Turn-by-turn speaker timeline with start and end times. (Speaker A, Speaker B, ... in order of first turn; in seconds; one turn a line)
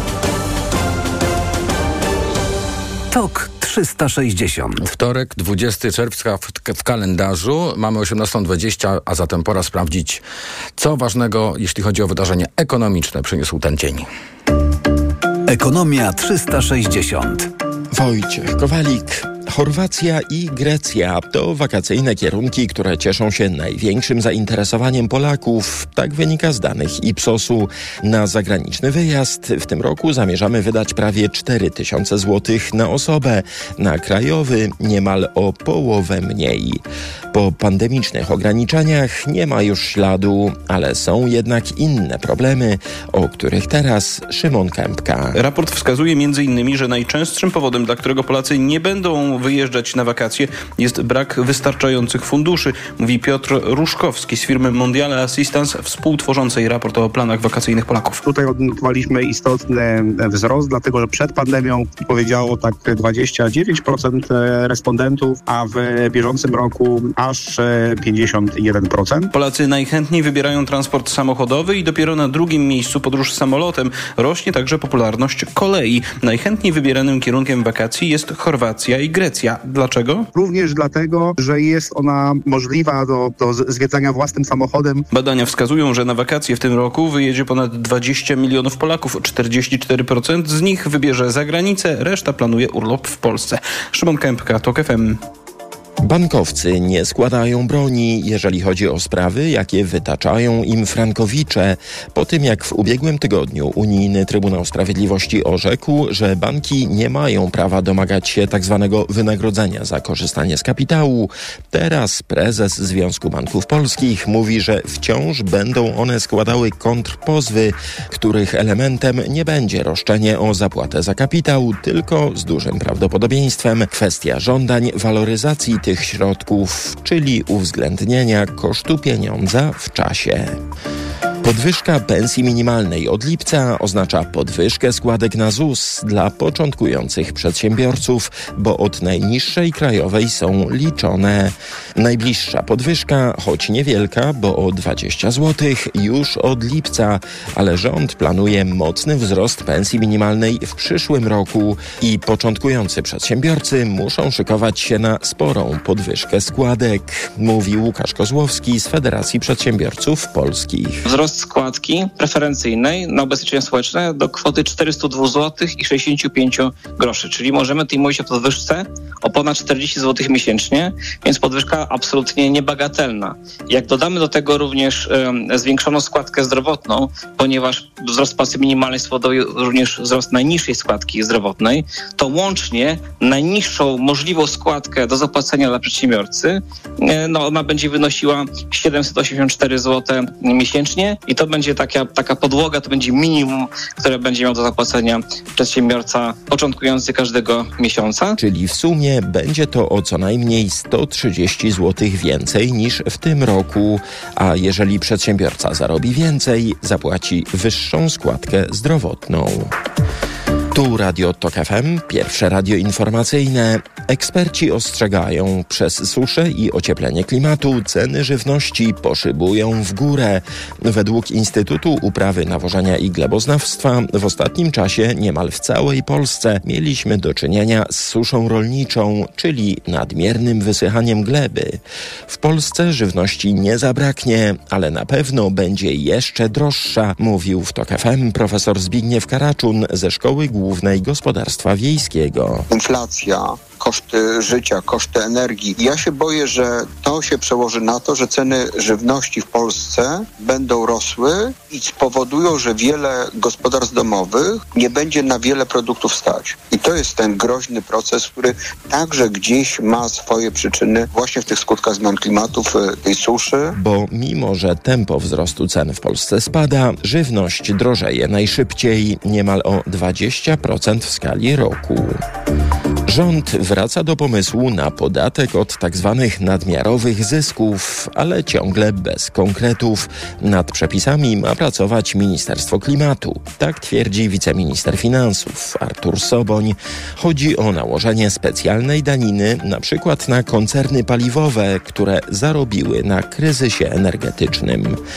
Speaker A: 3.1-4.8
Speaker B: 4.8-10.2
Speaker B: 10.8-14.1
Speaker A: 15.5-17.5
Speaker C: 17.9-36.8
Speaker C: 37.3-45.4
Speaker D: 45.3-58.2
Speaker E: 58.2-69.3
Speaker D: 69.3-80.3
Speaker E: 80.3-85.1
Speaker D: 85.1-95.2
Speaker C: 96.0-130.6
Speaker C: 131.4-161.0
Speaker F: 161.0-198.4
Speaker C: 198.4-209.7
Speaker C: 210.7-242.7
Speaker G: 242.7-263.7
Speaker C: 263.8-272.2
Speaker C: 273.1-295.0